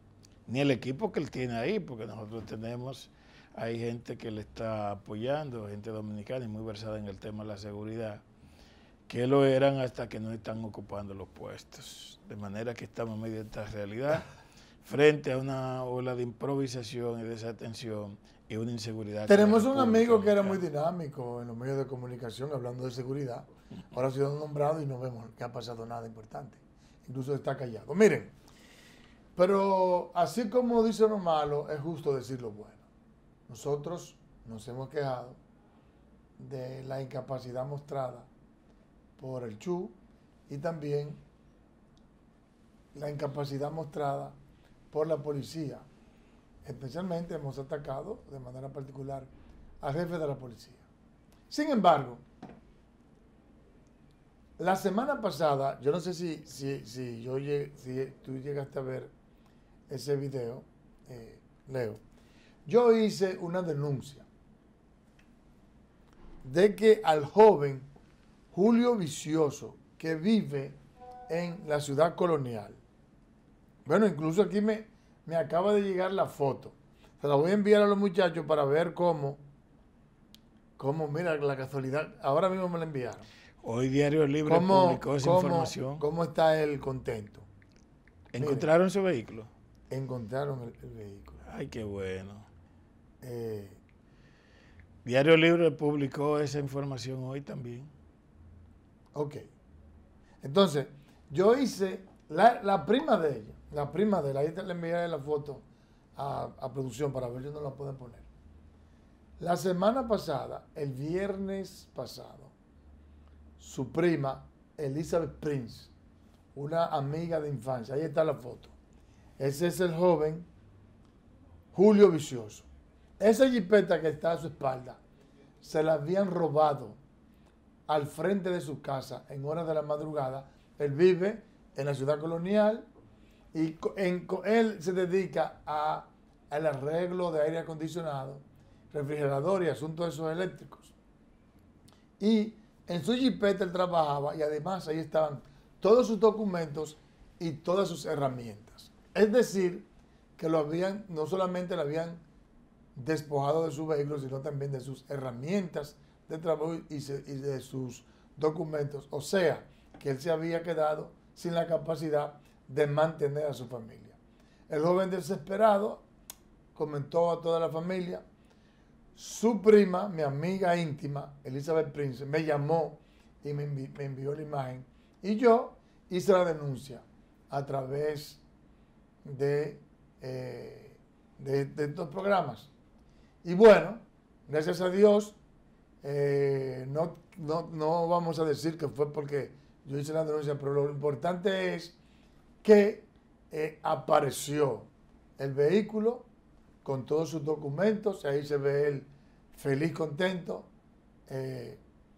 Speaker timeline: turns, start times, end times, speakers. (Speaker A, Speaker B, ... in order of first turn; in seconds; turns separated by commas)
Speaker A: 0.5-8.2, Speaker A: 9.1-14.3, Speaker A: 14.8-20.6, Speaker B: 19.3-28.3, Speaker B: 29.4-32.9, Speaker B: 33.5-35.4, Speaker B: 36.4-38.3, Speaker B: 39.2-41.2, Speaker B: 42.9-44.4, Speaker B: 44.9-45.9, Speaker B: 46.6-49.3, Speaker B: 49.8-50.9, Speaker B: 51.5-52.2, Speaker B: 54.6-59.1, Speaker B: 59.9-62.0, Speaker B: 62.7-64.3, Speaker B: 66.4-67.9, Speaker B: 68.5-72.8, Speaker B: 73.9-79.4, Speaker B: 80.8-83.2, Speaker A: 83.6-86.1, Speaker B: 84.5-87.5, Speaker A: 88.3-89.5, Speaker B: 88.4-88.7, Speaker B: 89.9-91.4, Speaker A: 91.4-92.5, Speaker B: 93.2-93.8, Speaker A: 95.0-97.9, Speaker B: 99.1-99.4, Speaker B: 100.4-105.7, Speaker B: 106.2-108.3, Speaker B: 109.4-112.5, Speaker B: 113.6-115.9, Speaker B: 116.5-118.8, Speaker B: 119.4-120.5, Speaker B: 121.7-122.7, Speaker B: 123.2-125.0, Speaker B: 125.6-127.0, Speaker B: 127.9-132.9, Speaker B: 133.5-140.9, Speaker B: 142.2-152.2, Speaker B: 152.9-164.2, Speaker B: 164.7-166.1, Speaker B: 166.8-168.2, Speaker B: 169.2-178.4, Speaker B: 179.2-182.7, Speaker B: 183.4-185.4, Speaker B: 186.0-192.0, Speaker B: 192.6-196.3, Speaker B: 196.8-200.7, Speaker B: 201.3-201.8